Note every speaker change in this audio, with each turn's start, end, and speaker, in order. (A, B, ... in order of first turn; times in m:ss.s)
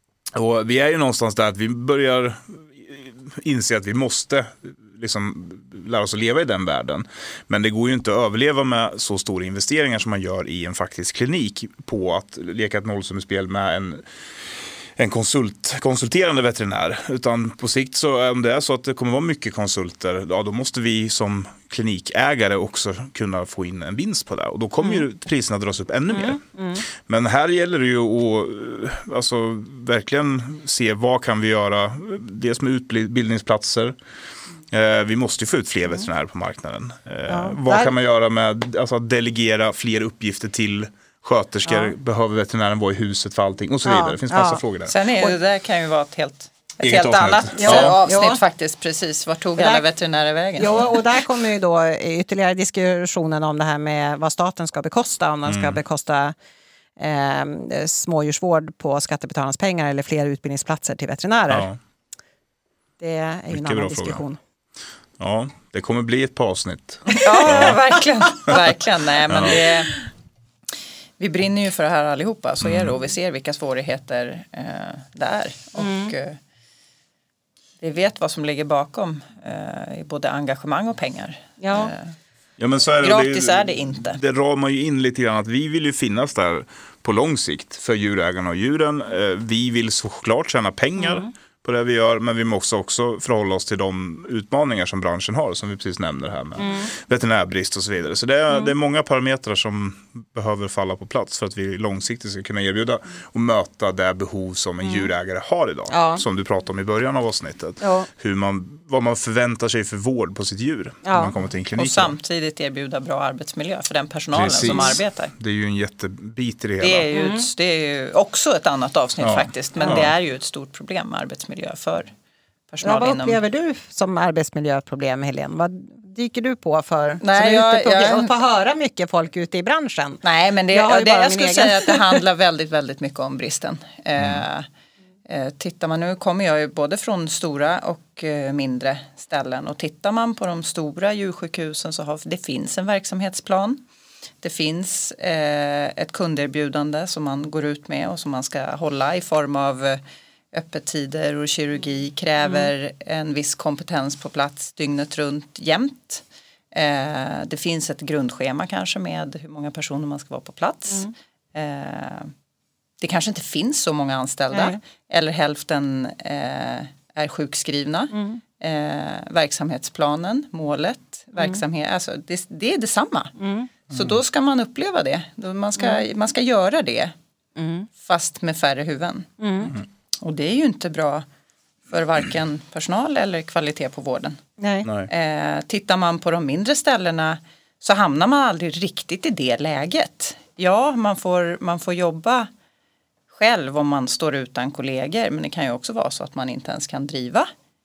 0:00.3-0:14.0 A
0:15.0-0:34.0 A
0:26.1-0:26.8 B
0:34.7-0:44.9 A
0:37.3-0:37.9 B
0:41.6-0:41.9 B
0:43.8-0:44.6 B
0:44.8-0:50.9 C
0:46.8-0:48.0 A
0:47.6-0:48.4 B
0:49.6-0:49.8 B
0:50.6-0:56.3 B
0:55.4-0:55.8 A
0:57.0-1:01.7 B
1:01.5-1:01.8 A
1:03.0-1:04.4 B
1:03.5-1:04.2 A
1:05.2-1:07.8 A
1:07.1-1:07.7 B
1:07.2-1:10.0 C
1:09.3-1:09.6 A
1:11.2-1:16.4 C
1:12.6-1:12.9 A
1:15.8-1:16.1 B
1:17.8-1:22.1 C
1:21.6-1:21.9 B
1:22.6-1:52.1 A
1:23.0-1:24.2 C
1:31.0-1:31.3 B
1:36.6-1:36.9 B
1:45.9-1:46.2 B
1:47.8-1:48.1 B
1:51.0-1:51.3 B
1:51.8-1:55.3 C
1:54.3-1:57.1 A
1:54.7-1:55.0 B
1:56.8-2:02.1 C
1:57.1-1:57.5 B
1:59.2-2:00.1 A
1:59.8-2:00.0 B
2:02.7-2:03.4 C
2:02.8-2:12.2 B
2:07.2-2:08.3 C
2:10.2-2:14.7 C
2:14.2-2:14.4 A
2:15.3-2:23.8 C
2:24.4-2:30.0 C
2:30.5-2:42.3 C
2:43.0-2:53.4 C
2:44.5-2:44.8 B
2:48.1-2:48.4 B
2:53.4-2:53.7 B
2:53.9-2:57.1 C
2:57.6-2:57.9 B
2:58.0-2:59.3 C
2:59.4-2:59.7 B
3:00.2-3:01.2 C
3:01.9-3:04.4 C
3:04.6-3:04.9 B
3:04.8-3:05.1 A
3:05.1-3:12.5 C
3:13.3-3:17.5 C